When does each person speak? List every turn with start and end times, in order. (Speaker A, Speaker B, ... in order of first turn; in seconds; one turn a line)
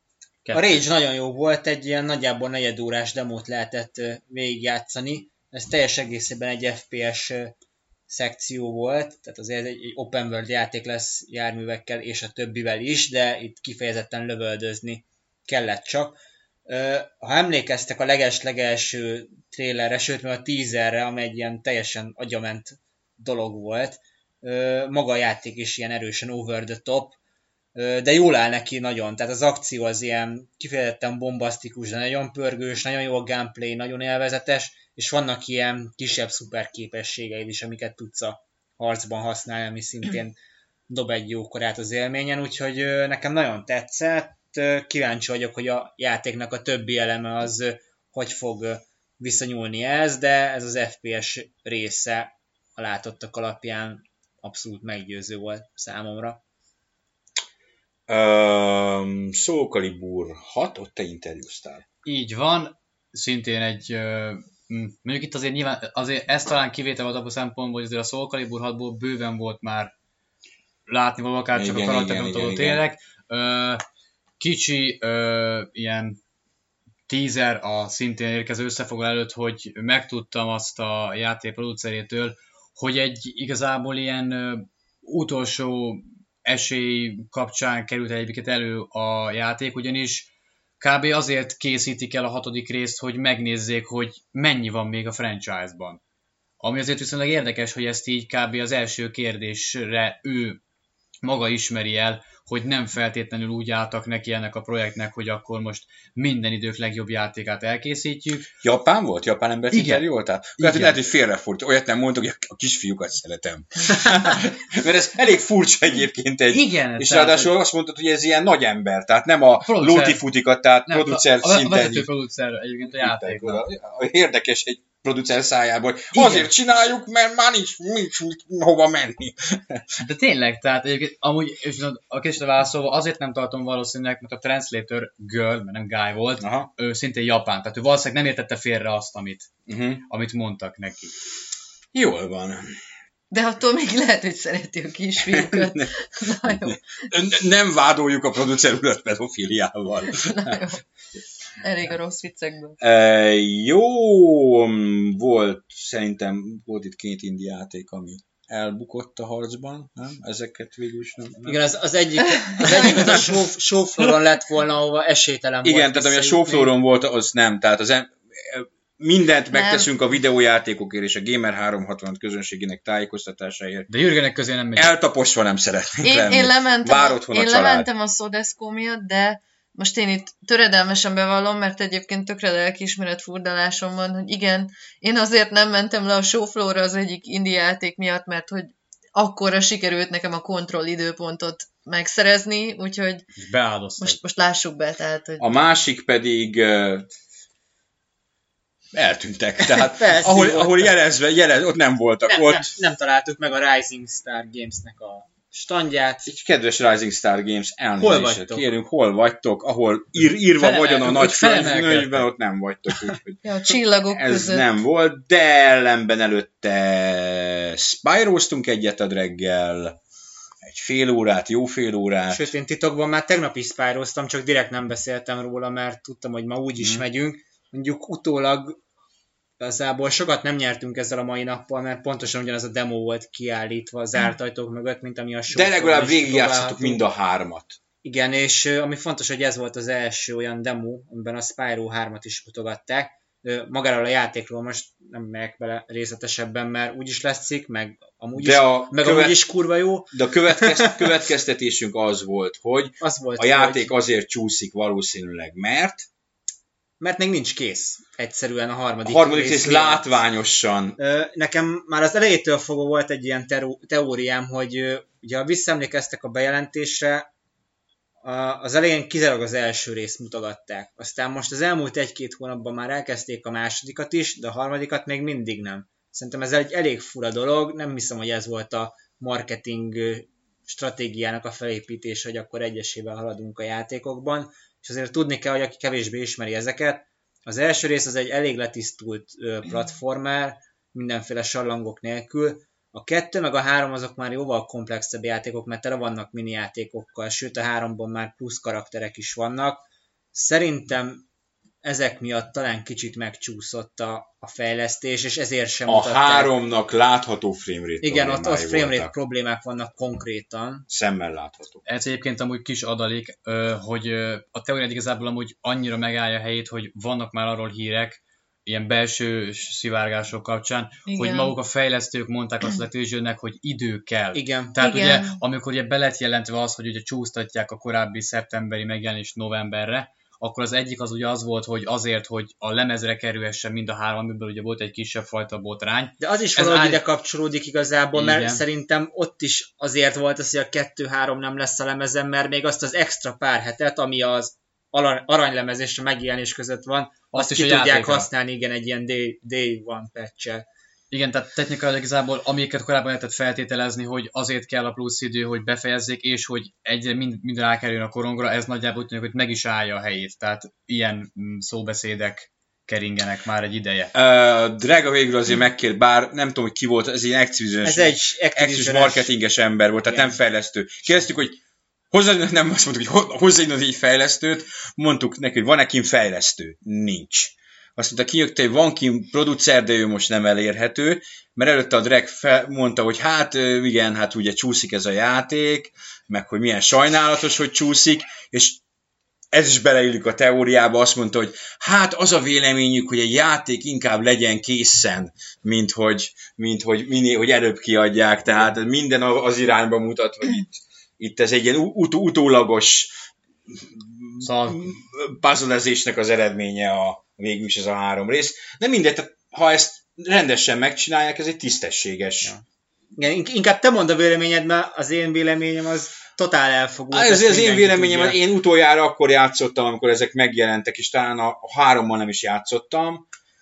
Speaker A: 0.4-0.8
Speaker B: 0.5-7.5
Speaker B: 8.1-27.2
Speaker B: 27.7-40.4
Speaker B: 40.9-56.4
Speaker C: 58.1-61.8
Speaker A: 62.0-69.9
Speaker A: 70.9-73.8
Speaker C: 71.5-72.8
Speaker A: 74.4-76.2
Speaker A: 77.1-96.0
Speaker A: 96.6-100.6
Speaker A: 101.2-108.5
Speaker C: 108.6-122.1
Speaker A: 109.7-110.0
Speaker A: 110.6-111.0
Speaker A: 116.5-117.5
Speaker A: 119.7-120.2
Speaker A: 120.9-123.6
Speaker C: 122.8-129.8
Speaker A: 126.1-126.5
Speaker A: 130.0-139.5
Speaker C: 136.4-136.7
Speaker C: 139.7-140.0
Speaker A: 140.1-141.1
Speaker C: 141.9-142.8
Speaker D: 143.3-146.8
Speaker C: 145.2-145.9
Speaker C: 146.4-150.6
Speaker D: 150.1-150.8
Speaker D: 151.6-152.8
Speaker C: 152.8-161.6
Speaker B: 161.4-166.7
Speaker D: 162.3-163.2
Speaker C: 162.6-163.4
Speaker C: 165.6-173.9
Speaker D: 169.5-169.9
Speaker A: 173.9-174.9
Speaker C: 174.7-177.9
Speaker D: 176.0-193.3
Speaker A: 193.4-194.2
Speaker D: 194.0-195.5
Speaker C: 195.4-197.1
Speaker C: 198.9-202.7
Speaker B: 199.6-200.9
Speaker B: 202.3-206.2
Speaker C: 206.2-213.4
Speaker B: 208.0-208.7
Speaker A: 210.6-212.3
Speaker D: 213.4-214.7
Speaker C: 214.1-220.0
Speaker C: 220.6-222.5
Speaker B: 222.3-228.8
Speaker B: 229.6-237.0
Speaker C: 235.5-237.8
Speaker B: 238.0-251.1
Speaker C: 248.3-249.5
Speaker C: 250.1-256.1
Speaker B: 253.0-253.9
Speaker B: 257.0-260.2
Speaker C: 259.0-261.0
Speaker B: 261.0-267.3
Speaker B: 268.2-301.3
Speaker B: 301.8-306.6
Speaker C: 305.9-309.1
Speaker B: 308.0-310.9
Speaker C: 310.9-311.8
Speaker A: 311.9-337.0
Speaker D: 321.1-321.5
Speaker B: 324.3-324.8
Speaker D: 324.8-325.4
Speaker B: 336.2-350.7
Speaker A: 338.1-338.6
Speaker A: 347.3-348.3
Speaker A: 351.1-364.1
Speaker C: 364.1-371.6
Speaker B: 367.8-369.3
Speaker B: 370.0-370.4
Speaker C: 372.1-388.8
Speaker C: 389.5-403.1
Speaker C: 403.7-412.5
Speaker A: 404.4-405.0
Speaker B: 413.1-418.4
Speaker C: 417.1-423.2